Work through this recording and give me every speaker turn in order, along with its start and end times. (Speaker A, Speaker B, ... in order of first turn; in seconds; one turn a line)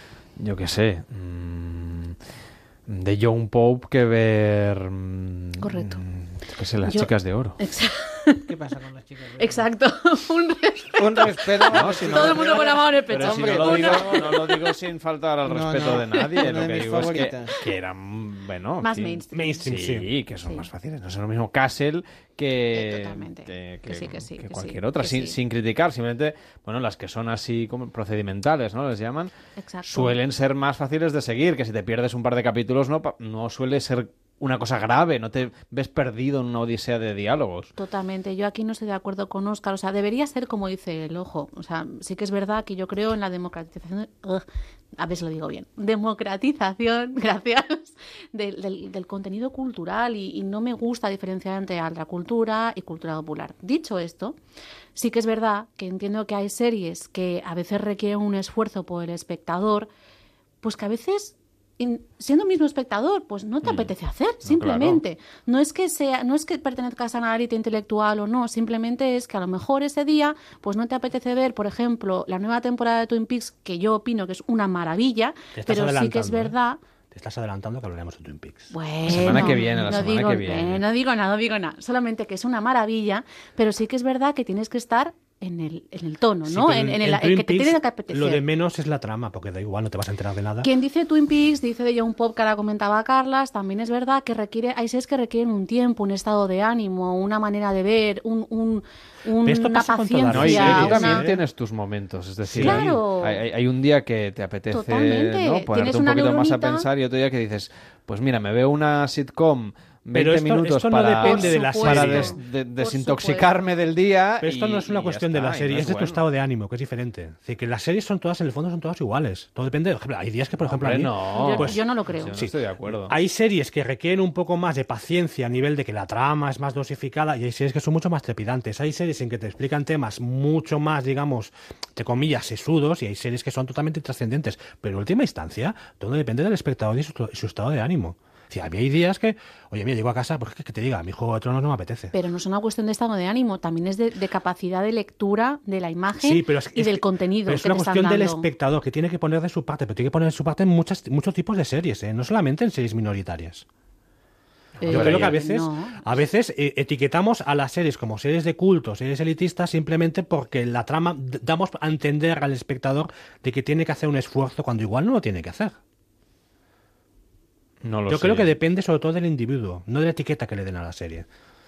Speaker A: 0.4-2.2
Speaker A: 2.9-7.6
Speaker B: 5.6-6.0
Speaker B: 6.9-8.5
Speaker C: 8.5-9.7
Speaker B: 9.4-14.6
Speaker C: 10.9-14.5
Speaker A: 11.6-29.3
Speaker C: 15.4-17.6
Speaker B: 18.8-19.7
Speaker D: 19.3-20.1
Speaker B: 22.7-25.4
Speaker B: 29.6-30.2
Speaker A: 29.9-37.7
Speaker B: 37.8-54.4
Speaker B: 55.0-59.9
Speaker B: 60.6-76.8
Speaker A: 63.6-63.9
Speaker A: 64.4-65.0
Speaker D: 75.6-76.6
Speaker D: 77.1-79.4
Speaker B: 78.7-88.5
Speaker A: 79.1-80.8
Speaker D: 86.5-90.7
Speaker B: 90.6-101.3
Speaker D: 99.4-101.4
Speaker A: 100.3-116.2
Speaker D: 102.4-103.0
Speaker B: 102.6-103.4
Speaker B: 104.7-106.9
Speaker D: 110.1-112.3
Speaker B: 111.2-113.5
Speaker D: 114.4-121.8
Speaker A: 120.6-123.2
Speaker B: 121.3-122.4
Speaker D: 122.3-142.2
Speaker B: 142.1-148.5
Speaker D: 146.2-153.7
Speaker A: 154.8-155.4
Speaker B: 154.8-156.2
Speaker D: 154.9-165.8
Speaker A: 167.8-168.6
Speaker D: 168.1-171.3